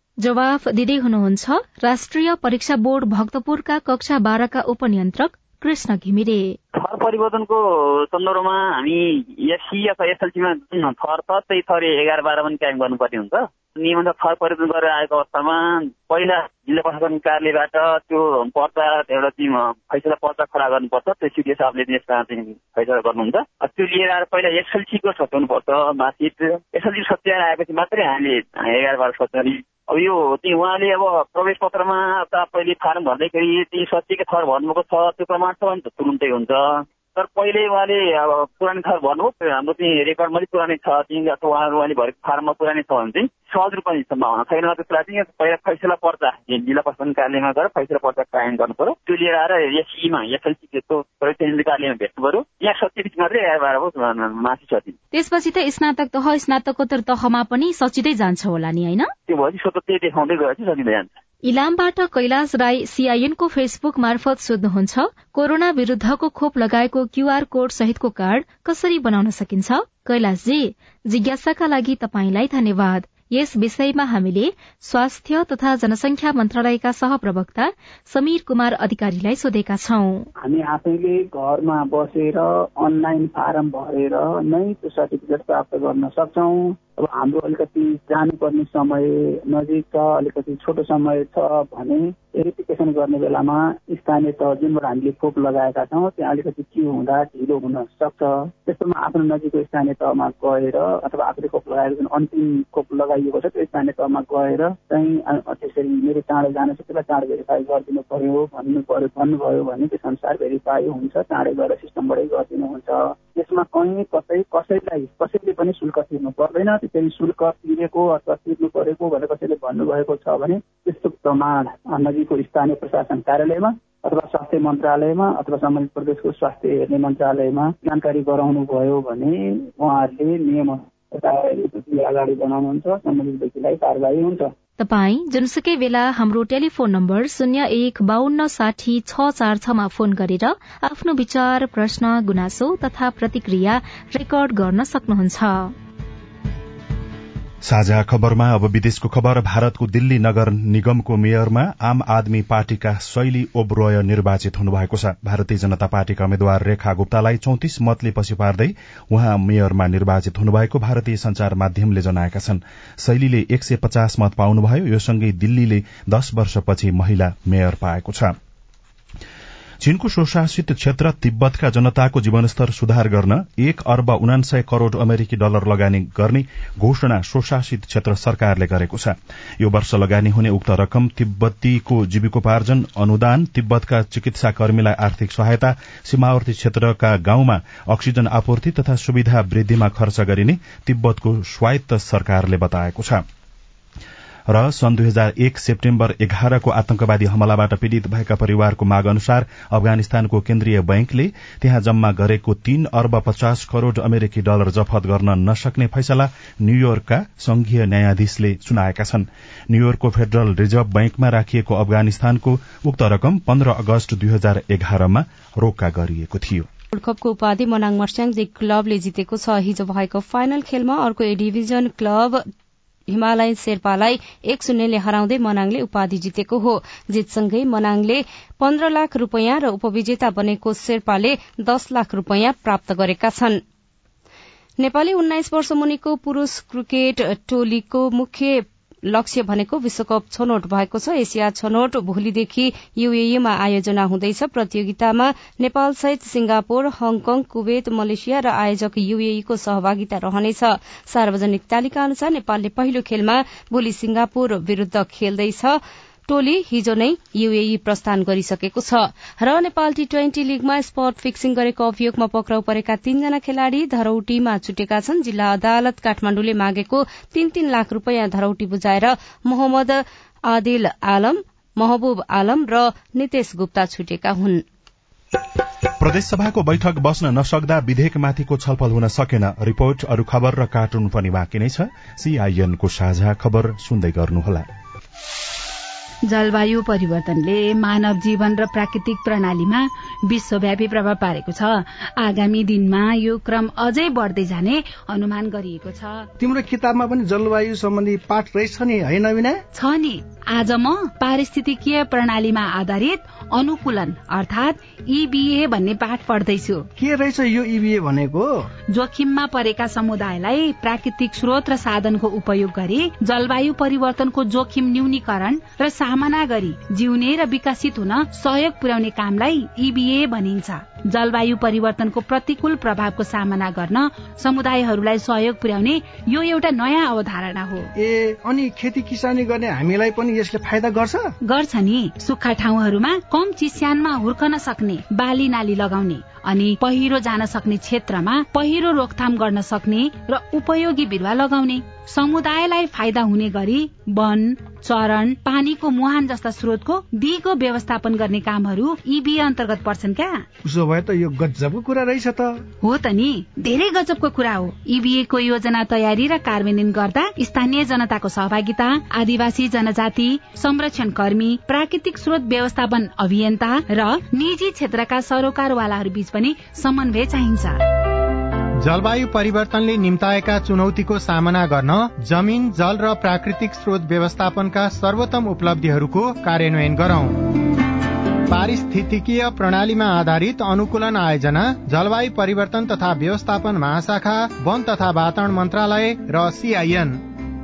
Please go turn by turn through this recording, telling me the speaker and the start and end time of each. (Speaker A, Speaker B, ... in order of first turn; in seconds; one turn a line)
Speaker A: 0.2-6.6
Speaker B: 6.7-55.0
Speaker A: 55.1-59.1
Speaker B: 59.3-61.1
Speaker A: 61.4-80.3
Speaker C: 80.4-134.5
Speaker A: 134.8-145.7
Speaker D: 147.6-168.3
Speaker D: 169.8-193.2
Speaker D: 194.5-216.7
Speaker E: 216.9-222.4
Speaker E: 223.1-233.6
Speaker E: 234.8-274.6
Speaker D: 276.0-284.7
Speaker F: 286.2-296.3
Speaker G: 296.4-299.6
Speaker F: 299.7-306.9
Speaker G: 307.0-308.5
Speaker F: 308.9-327.9
Speaker G: 328.0-331.2
Speaker F: 331.4-350.5
Speaker G: 350.7-352.5
Speaker F: 352.8-367.8
Speaker H: 368.8-377.7
Speaker H: 378.5-387.2